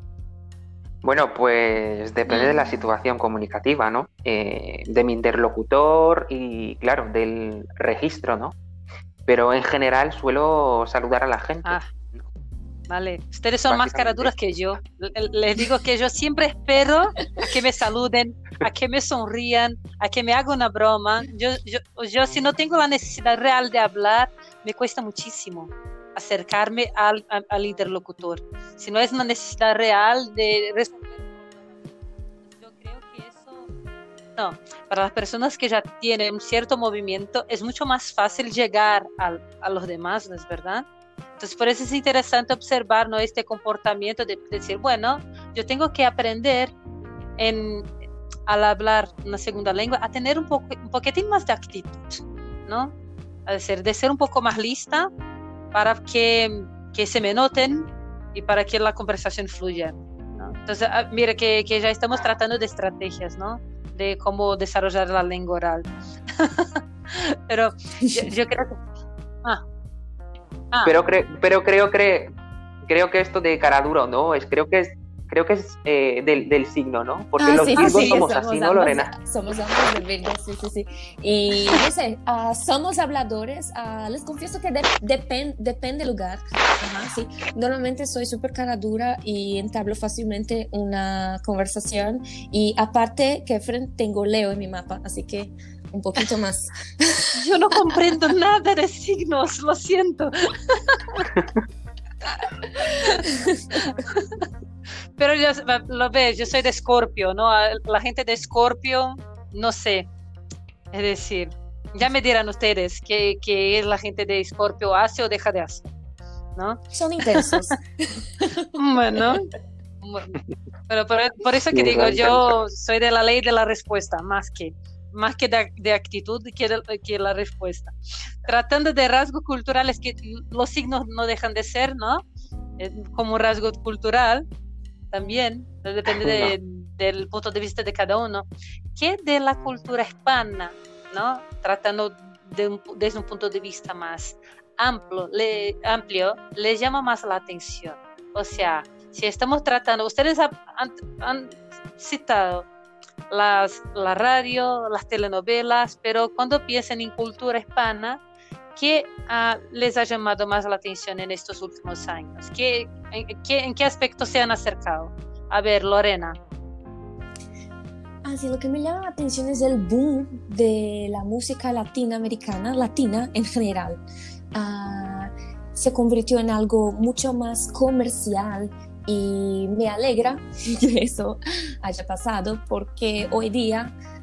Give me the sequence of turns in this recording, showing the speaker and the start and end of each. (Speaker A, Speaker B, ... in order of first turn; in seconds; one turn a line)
Speaker A: 1.0-8.6
Speaker B: 2.3-2.6
Speaker A: 9.3-12.2
Speaker B: 12.9-31.8
Speaker A: 13.7-14.3
Speaker B: 32.5-33.7
Speaker B: 34.4-40.9
Speaker B: 41.4-46.7
Speaker B: 47.4-47.9
Speaker B: 48.5-52.9
Speaker B: 53.5-55.1
Speaker B: 55.7-68.8
Speaker C: 68.0-68.3
Speaker A: 70.8-72.3
Speaker A: 72.9-79.1
Speaker C: 77.4-97.4
Speaker B: 77.8-78.2
Speaker B: 97.3-101.3
Speaker C: 102.7-103.8
Speaker B: 103.0-104.4
Speaker B: 105.2-110.1
Speaker B: 110.9-115.9
Speaker B: 116.6-116.8
Speaker C: 116.9-119.2
Speaker B: 117.3-117.6
Speaker B: 118.8-120.4
Speaker B: 120.9-132.2
Speaker A: 121.7-122.6
Speaker B: 132.8-134.4
Speaker B: 135.1-152.7
Speaker A: 136.2-136.6
Speaker B: 153.3-158.2
Speaker B: 158.8-166.4
Speaker C: 168.2-174.0
Speaker C: 174.5-183.9